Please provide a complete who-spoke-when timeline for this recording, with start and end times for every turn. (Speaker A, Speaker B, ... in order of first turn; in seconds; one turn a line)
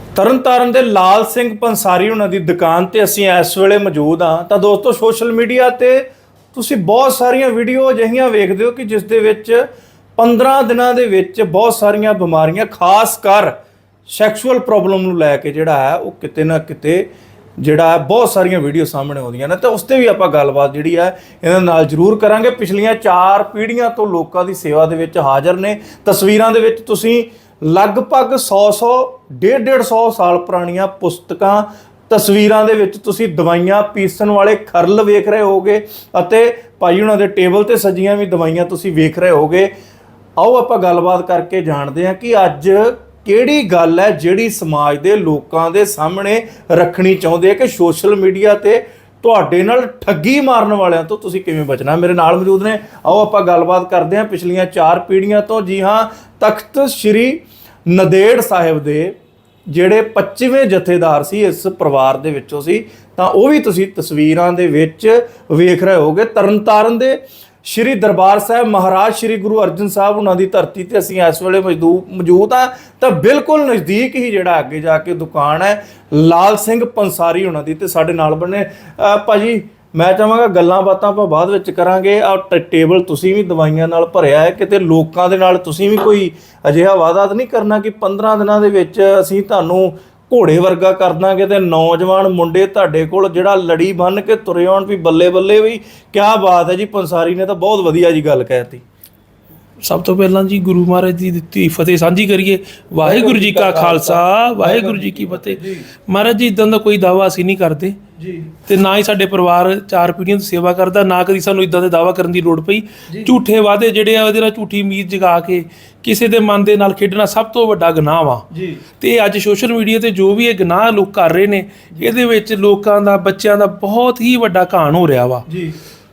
Speaker A: 0.1-9.6
Speaker A: 10.2-13.5
Speaker A: 14.1-39.7
Speaker A: 40.4-59.1
Speaker A: 59.7-98.8
Speaker B: 99.8-108.0
Speaker A: 103.0-105.9
Speaker A: 108.2-108.5
Speaker B: 108.6-118.5
Speaker A: 118.5-118.8
Speaker B: 119.0-125.5
Speaker A: 125.5-125.8